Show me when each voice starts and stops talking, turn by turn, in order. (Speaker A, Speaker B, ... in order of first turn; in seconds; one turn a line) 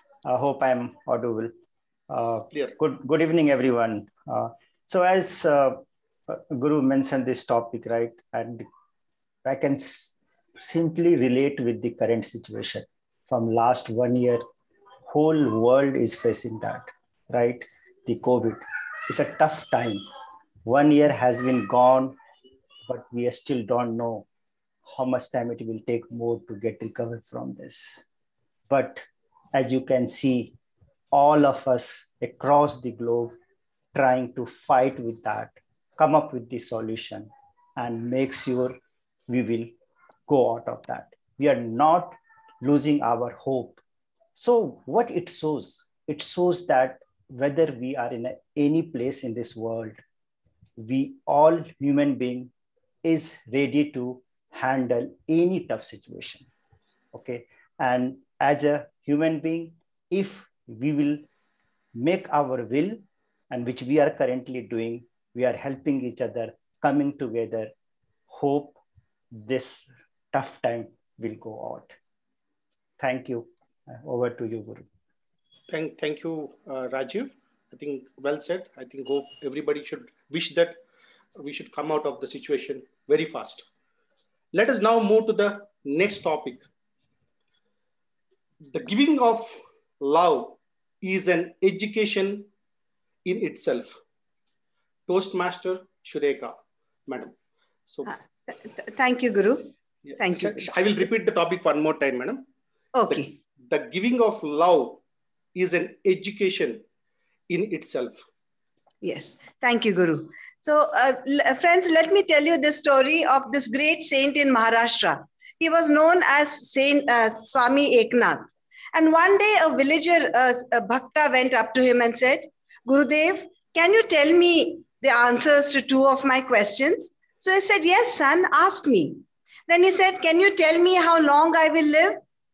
Speaker A: 0.2-1.5
Speaker A: 2.1-8.7
Speaker A: 9.4-14.5
Speaker A: 15.1-20.1
Speaker A: 20.6-22.2
Speaker A: 22.9-24.2
Speaker A: 24.9-28.0
Speaker A: 28.7-30.6
Speaker A: 31.1-33.3
Speaker A: 33.9-39.7
Speaker A: 40.3-43.8
Speaker A: 44.4-50.0
Speaker A: 50.8-52.5
Speaker A: 53.0-56.5
Speaker A: 57.1-61.2
Speaker A: 61.9-67.7
Speaker A: 68.3-68.8
Speaker A: 69.3-71.9
Speaker A: 73.0-74.9
Speaker B: 75.7-80.8
Speaker B: 81.4-83.7
Speaker B: 84.5-86.7
Speaker B: 88.7-92.5
Speaker B: 93.2-94.0
Speaker B: 95.1-97.3
Speaker C: 98.0-101.1
Speaker B: 100.0-102.4
Speaker C: 102.9-103.4
Speaker B: 103.1-105.0
Speaker B: 105.5-106.8
Speaker B: 107.5-108.2
Speaker C: 109.0-132.2